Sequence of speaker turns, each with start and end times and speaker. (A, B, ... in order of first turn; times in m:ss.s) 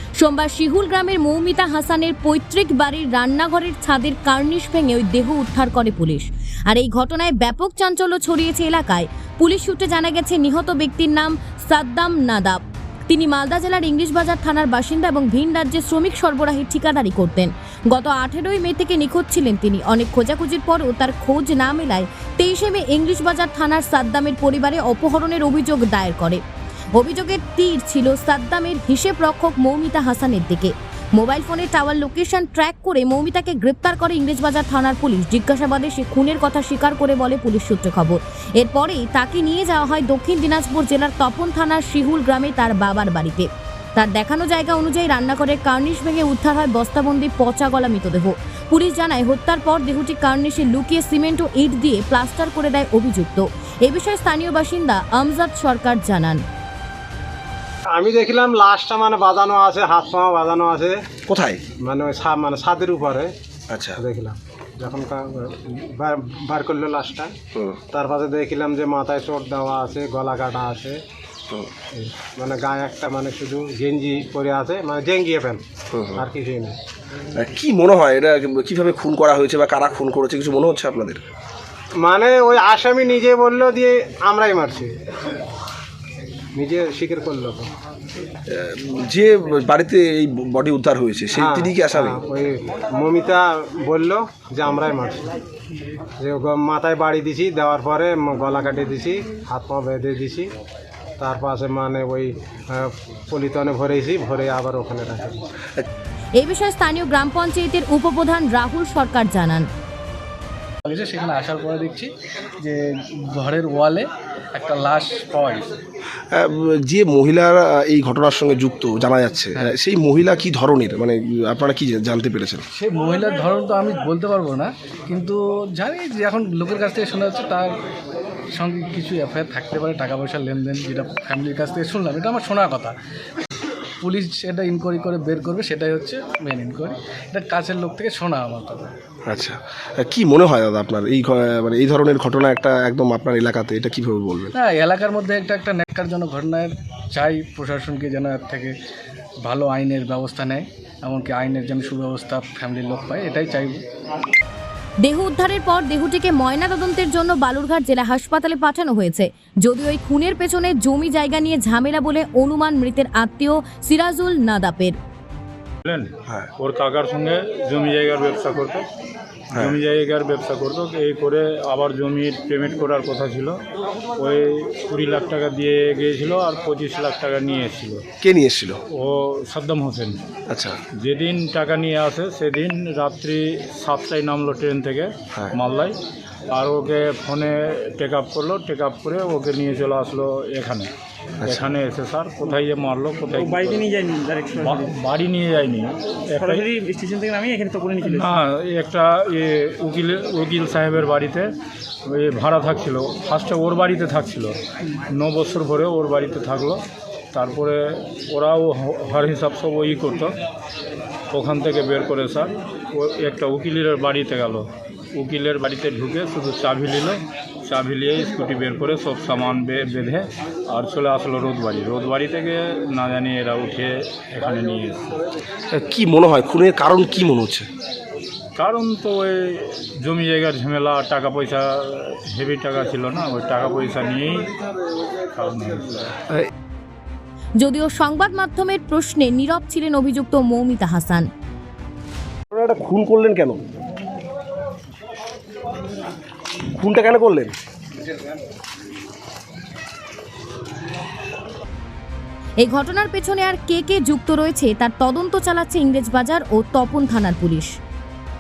0:00.2-0:26.4 A
0:27.0-0:56.4 A
0:57.9-1:01.0 B
1:01.3-1:01.6 C
1:01.8-1:03.3 B
1:03.7-1:04.0 C
1:04.0-1:07.3 B
1:07.6-1:07.8 C
1:07.9-1:11.0 B
1:11.9-1:15.6 B
1:15.9-1:16.2 C
1:16.2-1:16.8 B
1:17.4-1:21.2 C
1:22.0-1:24.9 B
1:26.6-1:27.7 B
1:28.5-1:32.2 C
1:31.4-1:35.3 B
1:36.2-1:40.5 B
1:41.2-1:45.4 B
1:46.4-1:49.7 A
1:50.8-1:55.7 D
1:56.3-2:02.6 C
2:02.7-2:07.8 D
2:08.5-2:13.0 D
2:14.0-2:18.9 D
2:19.3-2:24.5 C
2:24.6-2:28.8 D
2:29.4-2:33.8 D
2:35.0-2:45.0 A
2:45.8-2:48.8 E
2:49.5-2:53.6 E
2:54.2-2:58.0 E
2:58.2-2:58.8 C
2:58.9-3:00.2 E
3:00.5-3:00.8 C
3:01.0-3:06.0 E
3:06.5-3:10.9 E
3:11.4-3:11.7 C
3:11.4-3:13.9 E
3:13.3-3:14.9 F
3:14.6-3:16.7 E
3:16.4-3:18.4 F
3:18.0-3:21.5 E
3:22.1-3:30.3 E
3:31.3-3:45.2 E
3:45.7-3:47.7 C
3:48.6-3:54.6 E
3:55.2-3:56.2 E
3:57.6-4:01.3 A
4:02.5-4:03.6 C
4:06.8-4:07.5 C
4:12.6-4:17.8 A